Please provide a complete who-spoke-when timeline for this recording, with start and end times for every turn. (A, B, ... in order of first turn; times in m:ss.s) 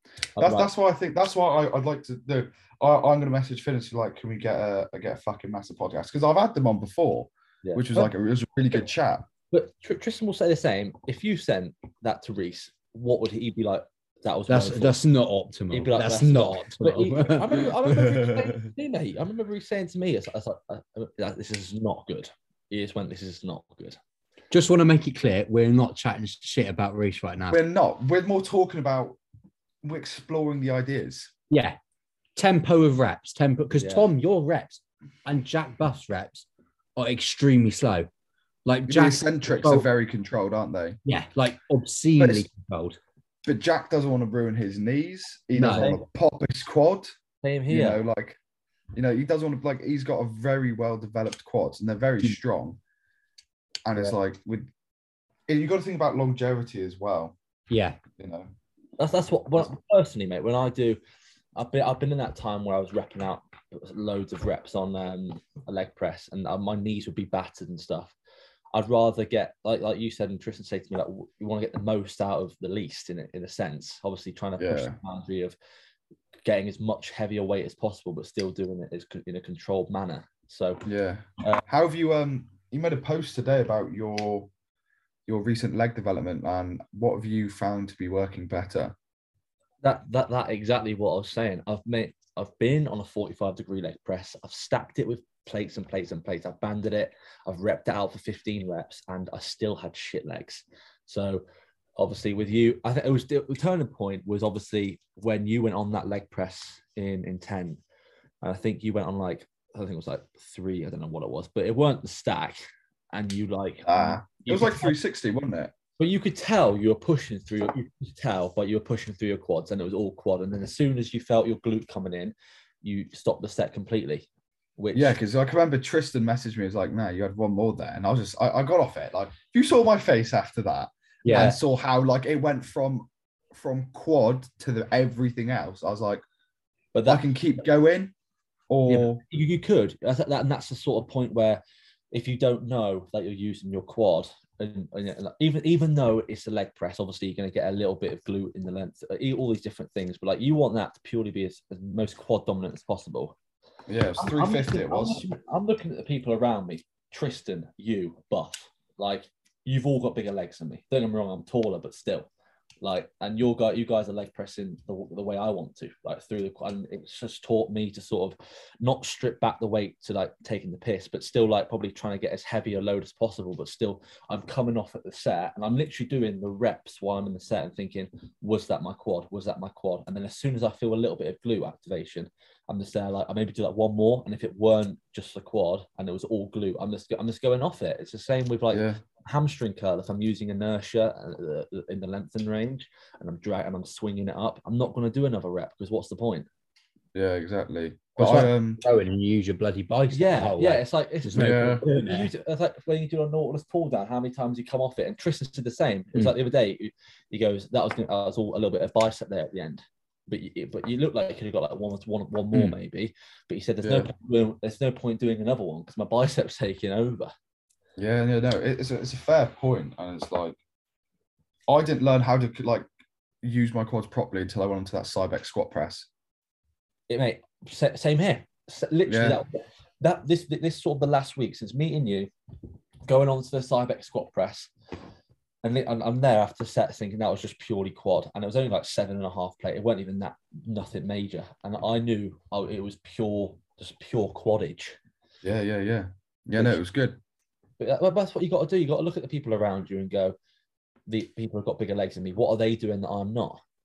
0:00.4-0:09.3 A
0:00.4-0:00.7 B
0:07.6-0:08.1 B
0:09.5-0:15.0 B
0:14.5-0:17.7 C
0:15.7-0:24.0 B
0:17.9-0:18.5 A
0:24.5-0:27.6 C
0:27.5-0:29.2 A
0:29.8-0:31.3 A
0:31.5-0:31.8 C
0:32.4-0:38.1 C
0:33.8-0:34.1 B
0:38.6-0:39.9 C
0:38.9-0:41.0 A
0:41.0-0:43.0 C
0:42.2-0:42.5 A
0:43.4-0:47.1 A
0:45.6-0:46.0 C
0:47.4-0:48.0 B
0:47.7-0:48.4 A
0:48.9-0:52.8 A
0:53.8-0:54.7 A
0:55.5-0:57.3 A
0:57.7-0:58.0 C
0:58.2-0:58.5 A
0:59.0-1:01.0 B
1:01.6-1:08.1 B
1:08.7-1:15.5 B
1:14.6-1:15.0 A
1:16.4-1:20.8 B
1:20.8-1:24.5 A
1:25.3-1:29.0 A
1:29.8-1:41.4 B
1:42.0-1:47.8 B
1:48.4-1:52.6 B
1:53.1-1:55.0 B
1:53.8-1:55.7 A
1:56.0-2:04.2 B
2:04.8-2:05.2 B
2:04.9-2:16.2 A
2:11.2-2:11.6 C
2:16.9-2:17.2 B
2:17.0-2:18.1 A
2:18.7-2:19.2 A
2:18.9-2:33.3 B
2:33.9-2:35.3 A
2:34.2-2:42.3 B
2:42.8-3:16.5 B
3:08.7-3:09.0 A
3:17.1-3:18.8 A
3:18.2-3:22.3 C
3:20.1-3:37.3 B
3:21.3-3:21.8 A
3:33.8-3:34.1 A
3:38.0-3:40.6 A
3:41.7-3:42.8 A
3:43.4-3:46.1 A
3:47.1-3:52.3 B
3:49.1-3:49.4 A
3:53.0-3:54.7 B
3:55.6-4:05.0 B
4:05.4-4:07.2 A
4:07.8-4:10.3 B
4:11.1-4:13.6 B